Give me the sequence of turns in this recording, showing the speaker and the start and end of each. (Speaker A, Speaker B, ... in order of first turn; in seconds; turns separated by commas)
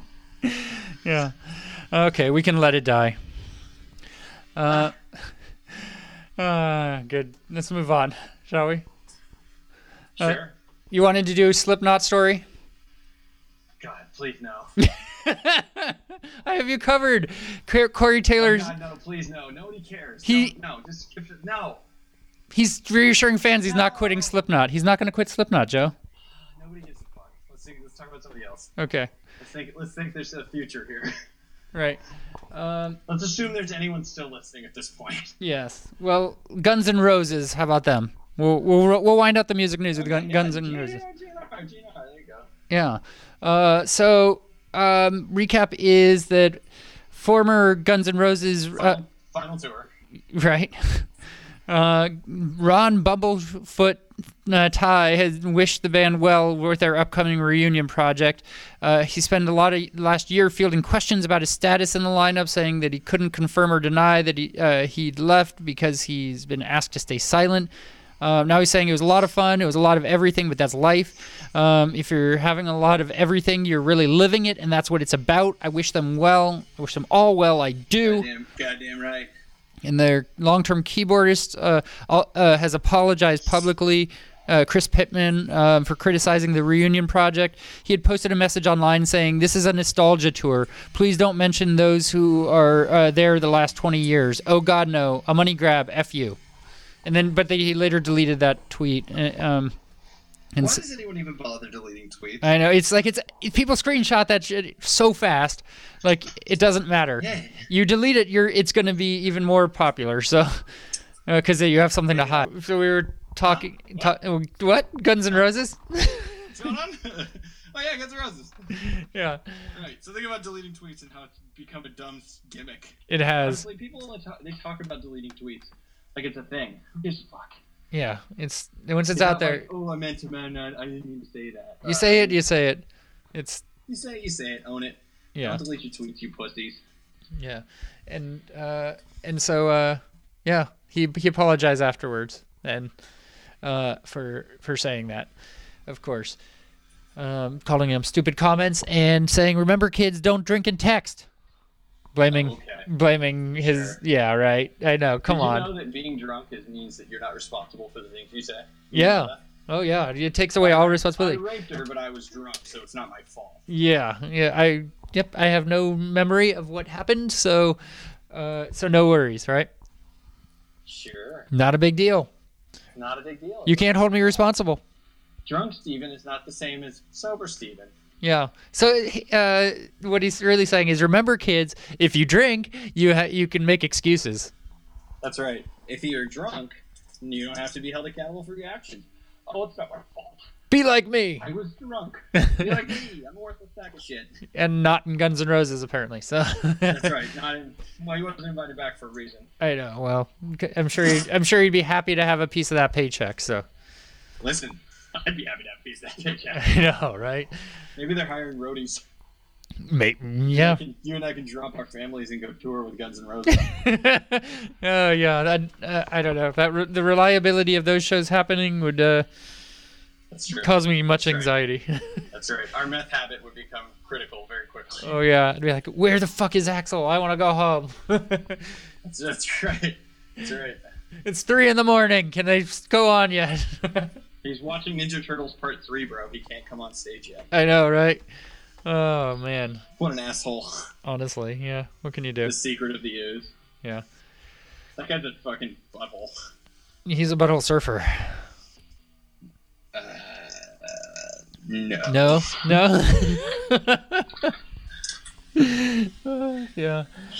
Speaker A: 0.4-3.2, Speaker A: 4.5-8.8, Speaker B: 10.2-10.5, Speaker A: 10.9-12.4, Speaker B: 13.8-14.7, Speaker A: 14.8-18.7, Speaker B: 18.4-21.8, Speaker A: 20.2-20.5, Speaker A: 22.5-25.9, Speaker B: 23.6-24.3, Speaker B: 26.4-28.7, Speaker A: 28.8-29.1, Speaker B: 29.4-31.1, Speaker A: 31.7-33.0, Speaker B: 33.1-35.4, Speaker A: 35.4-41.0, Speaker B: 39.9-42.5, Speaker A: 42.7-49.0, Speaker B: 48.8-49.9, Speaker A: 50.3-51.1, Speaker A: 51.7-78.3, Speaker B: 78.0-79.3, Speaker A: 79.8-96.4, Speaker A: 97.0-99.7, Speaker A: 100.5-100.8, Speaker B: 100.6-102.5, Speaker A: 102.4-110.6, Speaker B: 107.2-107.7, Speaker A: 111.3-116.5, Speaker B: 112.1-112.5, Speaker B: 113.5-114.1, Speaker B: 116.5-118.8, Speaker A: 118.8-119.7, Speaker B: 119.7-127.6, Speaker A: 123.1-123.6, Speaker A: 127.9-129.7, Speaker B: 129.1-132.4, Speaker A: 131.8-133.6, Speaker B: 133.9-136.8, Speaker A: 135.3-135.6, Speaker A: 137.3-142.9, Speaker A: 143.6-145.3, Speaker A: 145.9-146.4, Speaker A: 147.2-151.2, Speaker A: 152.1-155.7, Speaker B: 152.3-152.9, Speaker B: 153.6-154.0, Speaker B: 155.2-159.4, Speaker A: 158.9-161.4, Speaker B: 160.6-163.6, Speaker A: 163.7-167.8, Speaker A: 168.3-169.7, Speaker B: 170.8-171.5, Speaker A: 171.5-172.3, Speaker B: 172.9-174.4, Speaker A: 173.7-174.8, Speaker B: 175.4-177.9, Speaker A: 178.2-184.5, Speaker B: 185.2-190.4, Speaker A: 190.7-191.4, Speaker B: 191.4-194.4, Speaker A: 192.3-192.8, Speaker A: 194.5-197.2, Speaker B: 196.9-199.5, Speaker A: 199.6-203.7, Speaker B: 204.4-206.8, Speaker A: 206.5-207.5, Speaker B: 207.9-209.0, Speaker A: 209.8-210.8, Speaker B: 210.5-213.8, Speaker A: 213.5-219.3, Speaker B: 220.3-221.5, Speaker A: 220.6-222.2, Speaker B: 222.3-225.1, Speaker A: 225.0-228.7, Speaker B: 229.0-230.8, Speaker A: 231.2-234.1, Speaker B: 234.4-237.5, Speaker A: 237.5-238.2, Speaker A: 238.8-239.8, Speaker B: 240.0-240.9, Speaker A: 241.0-242.5, Speaker B: 242.4-243.5, Speaker B: 245.0-246.3, Speaker A: 247.1-248.4, Speaker B: 249.9-252.7, Speaker A: 252.1-254.4, Speaker A: 255.5-257.1